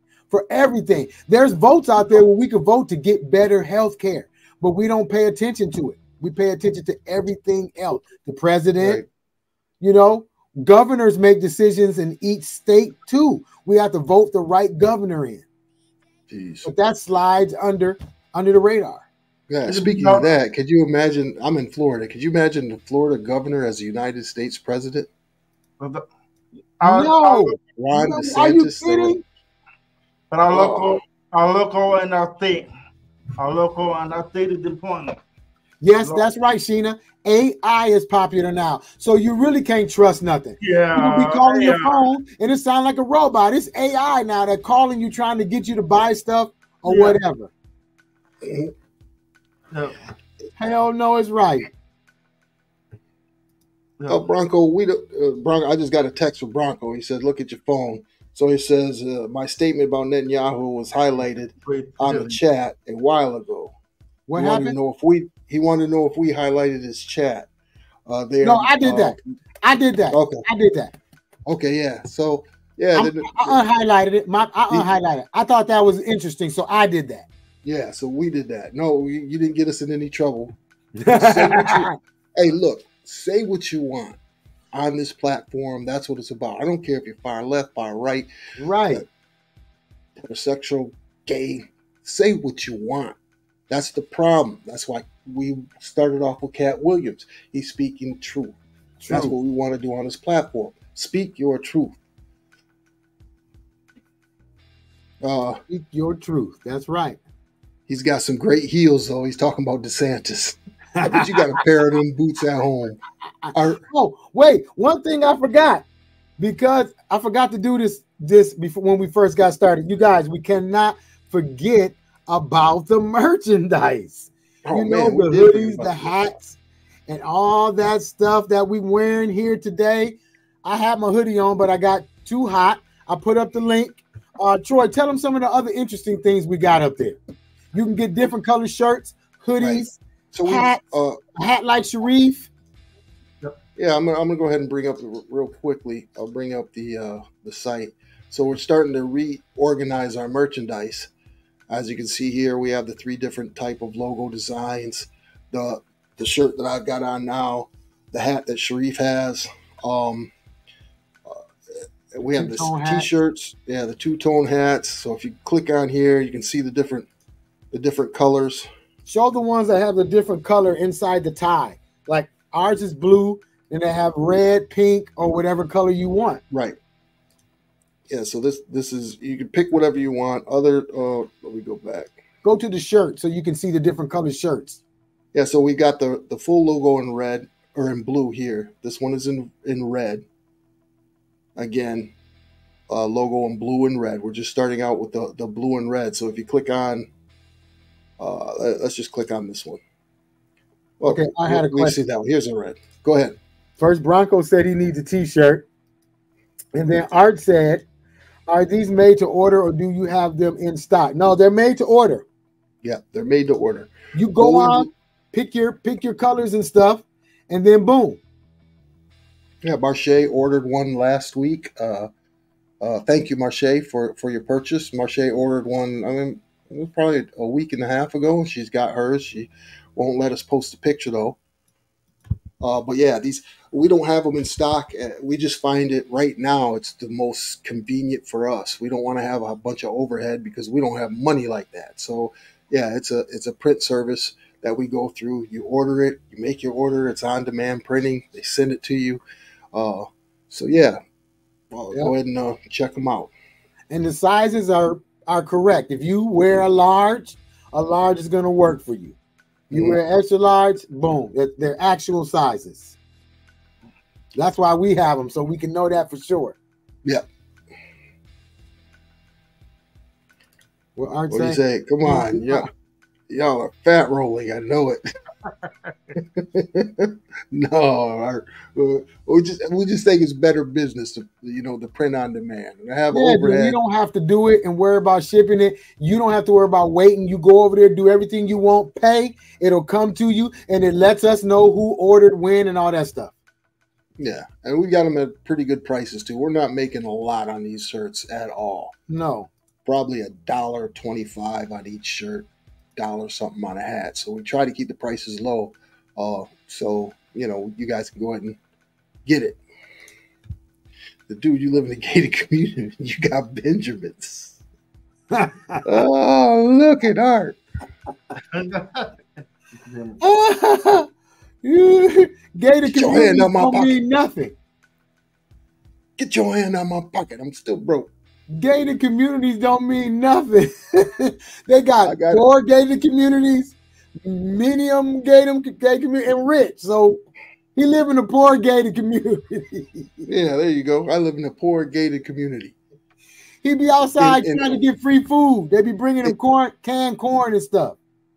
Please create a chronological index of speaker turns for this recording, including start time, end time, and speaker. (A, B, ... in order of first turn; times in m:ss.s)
0:00.3-0:09.0 A
0:08.8-0:09.1 B
0:09.8-0:15.4 A
0:16.3-0:16.7 B
0:16.6-0:19.1 A
0:19.5-0:25.1 B
0:19.7-0:20.3 C
0:26.8-0:27.6 C
0:26.8-0:29.2 A
0:27.8-0:29.2 B
0:30.3-0:32.7 C
0:30.5-0:31.0 B
0:33.4-0:35.2 C
0:35.8-0:47.5 A
0:36.0-0:36.3 C
0:40.6-0:42.0 C
0:46.8-0:47.2 C
0:48.4-0:48.7 B
0:49.7-0:50.0 C
0:50.6-0:51.7 A
0:54.0-0:54.3 C
0:54.1-1:03.7 B
1:01.7-1:02.4 C
1:04.3-1:04.8 A
1:04.4-1:07.5 B
1:08.1-1:09.2 B
1:08.4-1:10.9 A
1:10.1-1:10.5 B
1:11.5-1:13.6 B
1:13.0-1:17.3 A
1:17.6-1:20.6 B
1:21.0-1:22.0 A
1:21.1-1:24.2 B
1:24.7-1:28.3 B
1:28.6-1:29.0 A
1:30.2-1:33.2 B
1:33.7-1:38.6 B
1:39.0-1:39.4 A
1:39.1-1:42.0 B
1:45.2-1:45.6 B
1:45.7-1:47.2 A
1:47.9-1:53.0 B
1:51.0-1:51.4 A
1:53.4-1:55.8 A
1:53.5-1:53.8 B
1:56.4-2:06.6 A
2:04.6-2:06.1 B
2:07.1-2:17.2 A
2:17.7-2:20.8 A
2:19.6-2:21.2 B
2:21.4-2:22.5 A
2:23.8-2:31.1 B
2:31.7-2:40.3 B
2:42.1-2:47.1 B
2:42.3-2:43.1 A
2:47.7-2:48.7 B
2:49.1-2:56.4 A
2:56.5-2:56.8 B
2:58.1-3:02.1 B
3:02.4-3:04.8 A
3:05.3-3:10.2 B
3:11.6-3:12.1 B
3:12.9-3:17.1 B
3:18.2-3:19.8 B
3:21.0-3:23.4 B
3:21.0-3:22.0 A
3:23.8-3:25.7 A
3:26.7-3:27.8 A
3:28.5-3:32.2 A
3:32.8-3:34.9 B
3:34.1-3:38.2 A
3:39.6-3:42.1 B
3:42.8-3:51.4 B
3:52.6-4:09.2 B
4:09.7-4:11.0 B
4:11.7-4:13.3 B
4:13.9-4:19.2 A
4:19.7-4:23.0 A
4:19.7-4:20.0 B
4:24.4-4:26.6 A
4:31.0-4:32.7 A
4:31.3-4:32.7 B
4:33.3-4:35.1 B
4:36.2-4:43.8 B
4:43.1-4:53.3 A
4:54.2-4:59.0 B
4:59.1-4:59.5 A
4:59.8-5:08.6 B
5:09.3-5:09.6 B
5:11.3-5:14.6 B
5:15.3-5:15.8 A
5:15.8-5:17.6 B
5:18.5-5:19.2 C
5:19.8-5:20.2 C
5:20.2-5:21.1 A
5:21.6-5:24.6 A
5:22.9-5:23.9 B
5:26.2-5:28.1 B
5:28.5-5:37.2 A
5:32.0-5:32.4 B
5:37.8-5:40.2 A
5:40.2-5:42.8 B
5:43.6-5:48.0 A
5:44.2-5:44.8 B